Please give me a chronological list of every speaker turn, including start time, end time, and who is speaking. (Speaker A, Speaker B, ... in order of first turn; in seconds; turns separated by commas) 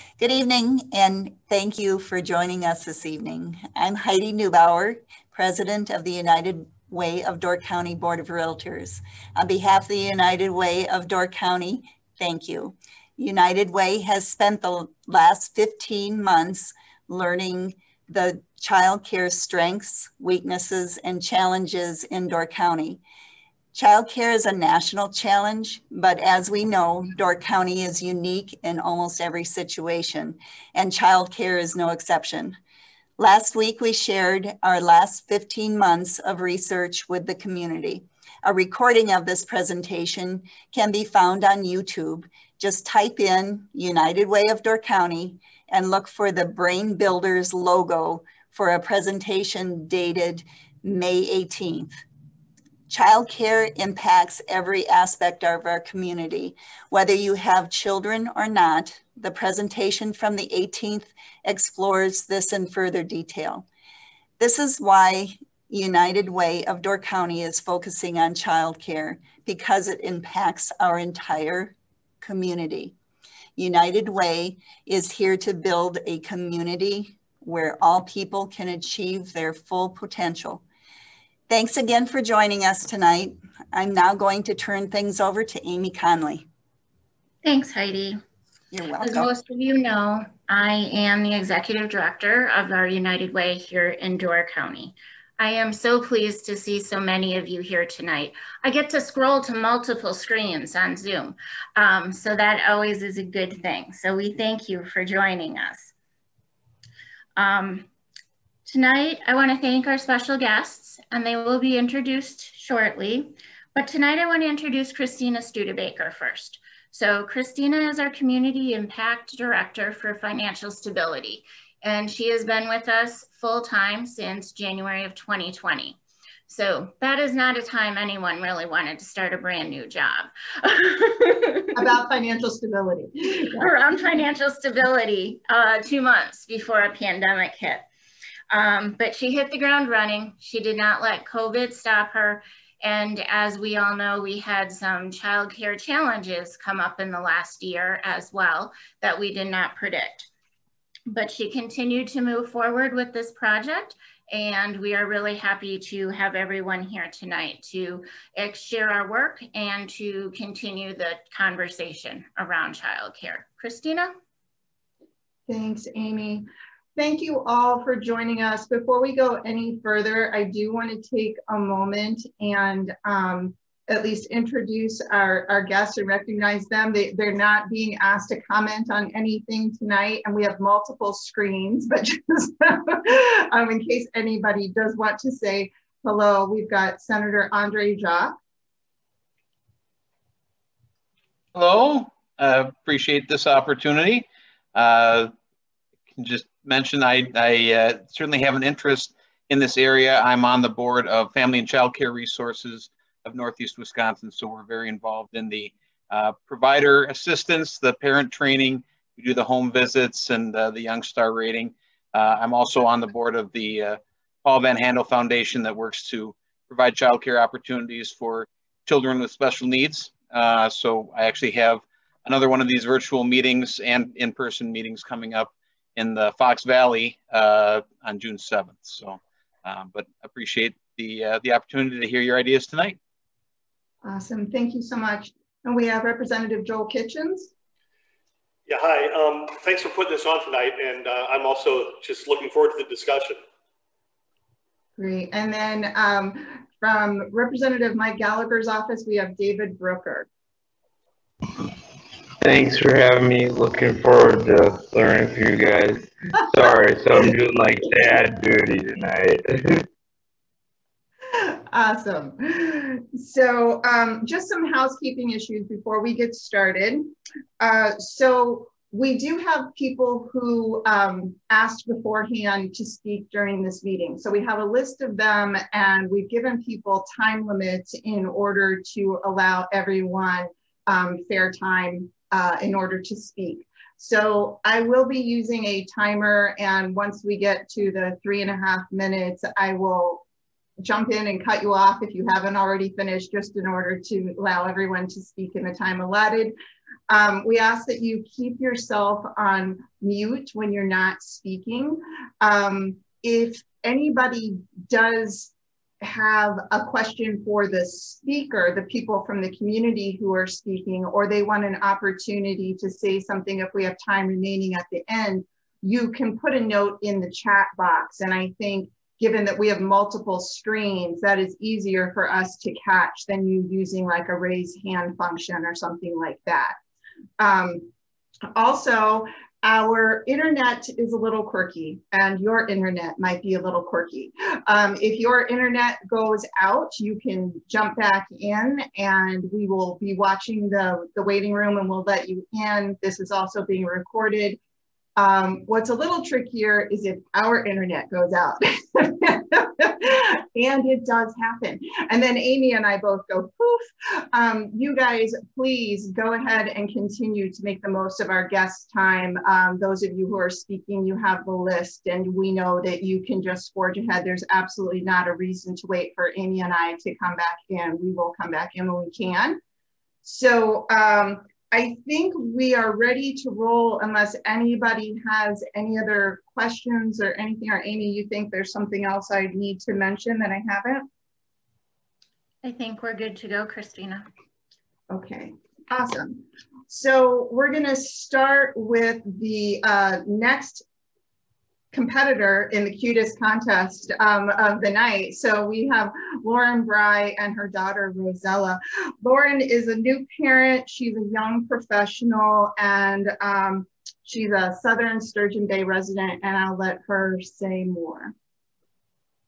Speaker A: 0.2-23.0, Speaker A: 23.7-32.6, Speaker A: 33.2-52.0, Speaker A: 52.9-63.6, Speaker A: 64.4-72.9, Speaker A: 73.6-80.6, Speaker A: 81.5-86.5, Speaker B: 87.4-88.2, Speaker A: 88.7-89.3, Speaker B: 89.0-105.9, Speaker B: 107.4-107.9, Speaker B: 108.7-131.7, Speaker C: 131.7-133.5, Speaker B: 133.6-137.8, Speaker B: 138.5-150.3, Speaker B: 151.1-164.1, Speaker C: 165.5-188.3, Speaker D: 191.5-195.3, Speaker D: 196.1-233.0, Speaker C: 234.0-237.5, Speaker E: 238.7-243.4, Speaker C: 245.0-250.3, Speaker F: 252.4-259.8, Speaker C: 261.3-290.2, Speaker C: 290.8-296.5, Speaker C: 297.1-326.8, Speaker C: 327.4-327.9, Speaker C: 328.5-344.6, Speaker C: 345.2-369.6, Speaker C: 370.2-381.1, Speaker B: 382.6-384.2, Speaker C: 385.1-390.8, Speaker C: 391.9-408.3